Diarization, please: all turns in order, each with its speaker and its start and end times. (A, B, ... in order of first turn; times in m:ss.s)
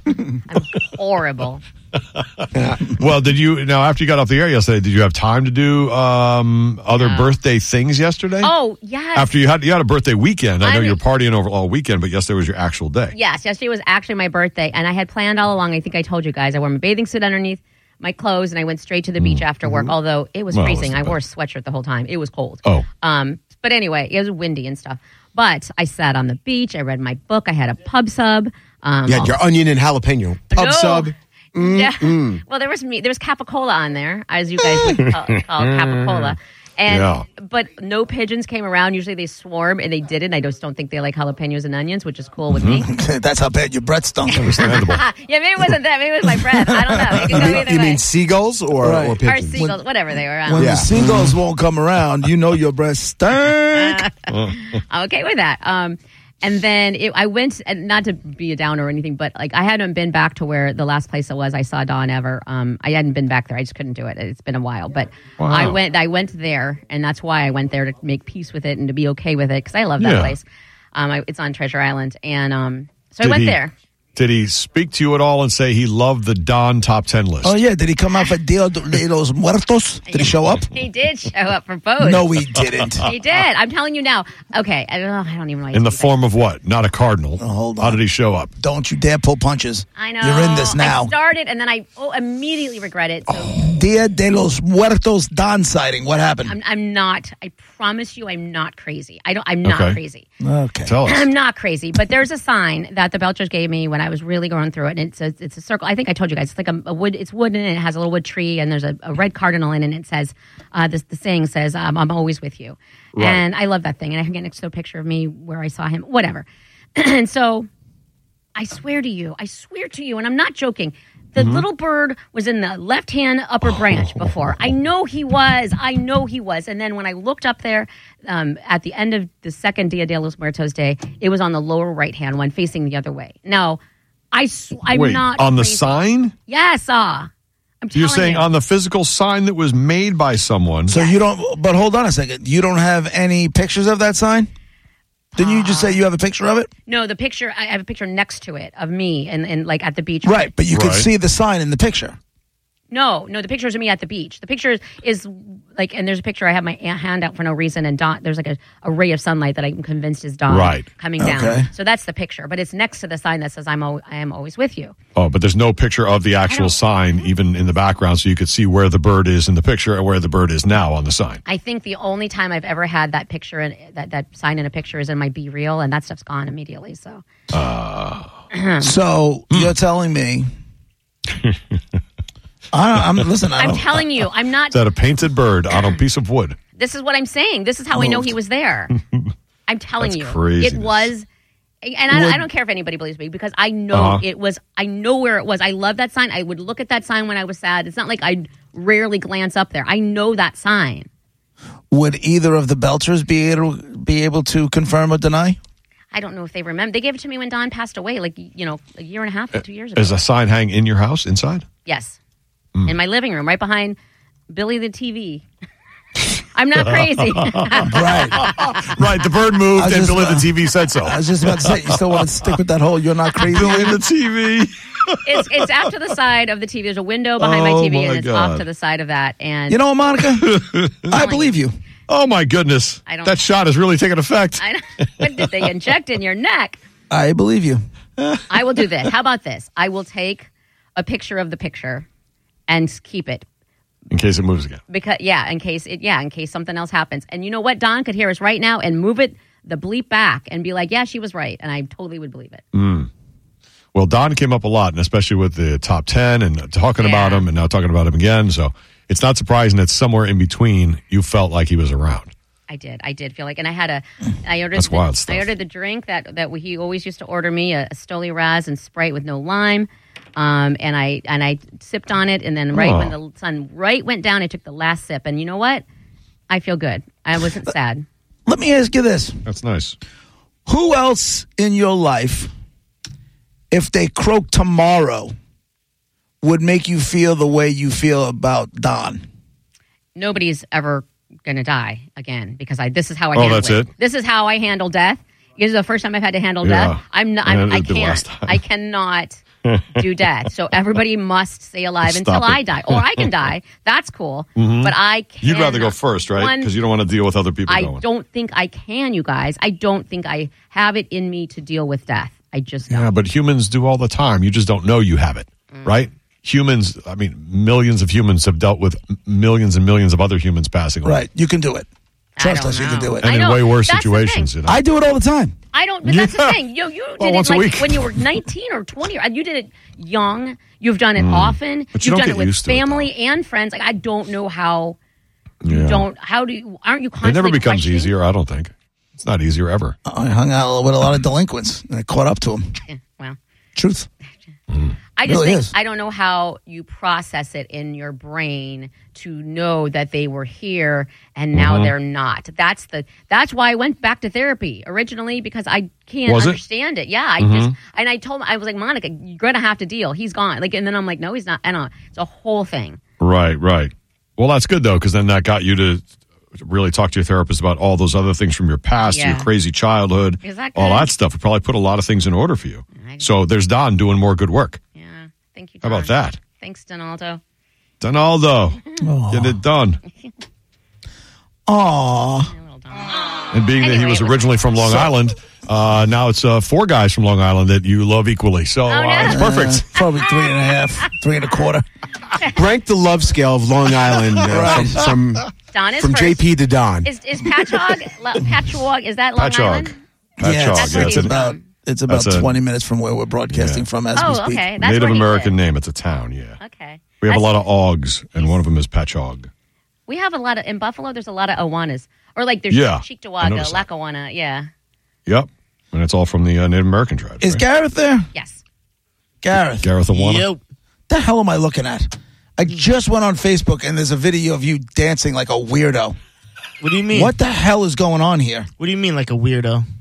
0:00.5-0:01.6 A
0:02.4-0:08.5 B
0:07.0-0:07.3 A
0:08.4-0:09.3 A
0:09.2-0:13.2 B
0:10.6-0:11.0 A
0:13.1-0:29.4 A
0:19.2-0:19.9 B
0:20.5-0:21.2 B
0:29.1-0:32.4 C
0:30.5-0:42.9 A
0:34.9-0:36.3 B
0:36.9-0:37.2 B
0:42.5-0:42.8 B
0:42.8-0:44.6 D
0:44.3-0:48.0 A
0:44.4-0:45.0 B
0:46.7-0:47.6 D
0:47.2-0:49.7 C
0:48.8-0:49.8 D
0:49.2-0:50.8 A
0:50.4-0:54.1 D
0:50.6-0:50.9 C
0:51.0-0:51.3 B
0:54.3-0:54.6 B
0:54.6-1:13.7 A
1:05.4-1:05.8 B
1:10.0-1:10.4 B
1:13.2-1:13.6 B
1:14.2-1:17.6 B
1:17.4-1:20.7 D
1:20.1-1:22.3 A
1:22.0-1:23.1 D
1:23.0-1:26.1 A
1:25.7-1:28.5 B
1:27.4-1:28.0 D
1:28.6-1:31.1 D
1:30.0-1:33.6 A
1:33.6-1:36.6 D
1:36.5-1:40.3 A
1:39.6-1:40.0 B
1:40.4-1:41.0 D
1:40.9-1:41.3 B
1:41.0-1:57.7 A
1:53.2-1:53.4 B
1:58.6-2:13.8 A
2:01.4-2:01.6 B
2:03.9-2:04.2 B
2:14.3-2:15.9 A
2:14.9-2:16.3 B
2:16.5-2:17.3 A
2:17.8-2:18.5 A
2:18.0-2:20.9 B
2:20.9-2:24.5 D
2:20.9-2:21.2 A
2:25.4-2:26.0 A
2:25.4-2:26.7 D
2:26.9-2:30.5 A
2:30.2-2:32.2 D
2:30.7-2:31.1 B
2:32.9-2:44.9 A
2:40.5-2:40.9 B
2:41.2-2:41.7 D
2:45.2-2:51.4 B
2:46.5-2:46.8 A
2:51.5-2:57.2 A
2:57.5-2:58.3 B
2:58.5-2:58.9 A
2:58.8-3:00.5 D
3:02.7-3:04.0 D
3:03.6-3:04.8 A
3:04.7-3:06.6 B
3:06.8-3:08.9 A
3:08.0-3:08.3 D
3:09.7-3:11.3 A
3:10.0-3:11.1 B
3:11.8-3:21.1 A
3:13.9-3:14.2 B
3:21.9-3:25.6 D
3:26.1-3:30.2 A
3:30.0-3:31.6 B
3:31.9-3:32.2 A
3:32.9-3:34.0 A
3:34.5-3:35.4 A
3:36.5-3:39.0 A
3:37.0-3:37.9 B
3:37.8-3:38.4 D
3:38.4-3:42.3 B
3:39.7-3:44.0 D
3:43.4-3:45.6 B
3:45.2-3:49.8 A
3:47.4-3:48.6 B
3:49.7-3:51.8 D
3:50.4-3:51.2 B
3:51.1-3:51.5 A
3:52.1-3:55.5 B
3:53.1-3:53.4 A
3:54.6-3:56.8 A
3:57.1-3:57.8 D
3:58.5-4:02.1 A
4:02.7-4:03.4 A
4:04.1-4:04.8 B
4:04.9-4:12.6 A
4:12.7-4:13.1 B
4:13.9-4:22.3 B
4:17.0-4:17.5 A
4:22.7-4:35.8 A
4:24.8-4:25.5 B
4:32.7-4:33.2 B
4:36.5-4:38.0 A
4:38.5-4:39.4 D
4:39.5-4:40.0 B
4:40.7-4:42.5 D
4:43.7-4:45.3 D
4:46.4-4:49.2 D
4:50.2-4:59.4 A
4:53.4-4:53.9 B
4:56.6-4:58.6 B
4:59.6-5:00.0 B
4:59.9-5:06.7 A
5:02.0-5:03.3 B
5:04.6-5:08.0 B
5:07.7-5:13.1 A
5:12.9-5:21.2 B
5:15.7-5:16.1 A
5:21.0-5:21.9 D
5:22.4-5:24.5 A
5:22.4-5:23.3 D
5:23.2-5:24.8 B
5:24.7-5:25.6 D
5:25.7-5:35.0 A
5:26.1-5:26.6 B
5:27.2-5:28.3 B
5:31.2-5:33.1 B
5:35.6-5:36.1 B
5:35.7-5:38.1 A
5:37.2-5:40.0 B
5:40.1-5:42.8 D
5:42.9-5:43.4 A
5:43.8-5:44.1 D
5:44.7-5:45.0 B
5:45.2-6:03.0 A
5:45.2-5:45.7 D
5:51.5-5:51.9 B
5:56.3-5:56.6 B
5:57.4-5:57.7 B
6:03.2-6:06.0 B
6:06.6-6:14.8 B
6:09.0-6:09.5 A
6:10.4-6:11.1 A
6:13.0-6:13.3 A
6:15.0-6:17.4 A
6:15.8-6:16.4 B
6:18.0-6:20.0 B
6:19.0-6:19.6 D
6:21.7-6:22.5 D
6:22.5-6:23.1 A
6:23.5-6:29.9 B
6:23.8-6:24.7 A
6:24.8-6:25.1 D
6:28.9-6:29.5 A
6:29.2-6:31.8 D
6:30.2-6:30.5 A
6:32.5-6:35.5 C
6:34.4-6:35.1 D
6:35.7-6:36.4 A
6:36.0-6:37.1 C
6:37.0-6:40.0 A
6:39.4-6:41.4 B
6:40.4-6:44.6 D
6:40.8-6:41.6 A
6:42.1-6:42.5 B
6:43.5-6:43.9 B
6:44.2-6:45.5 A
6:44.8-6:46.6 B
6:46.6-6:47.6 A
6:47.2-6:49.5 B
6:50.1-6:54.7 A
6:52.7-6:53.8 B
6:55.3-6:57.6 B
6:57.4-6:58.3 D
6:58.3-6:58.6 A
6:59.4-6:59.9 D
6:59.8-7:00.5 B
7:00.1-7:00.6 E
7:01.1-7:06.2 D
7:06.8-7:07.4 E
7:07.1-7:08.7 D
7:08.8-7:09.8 E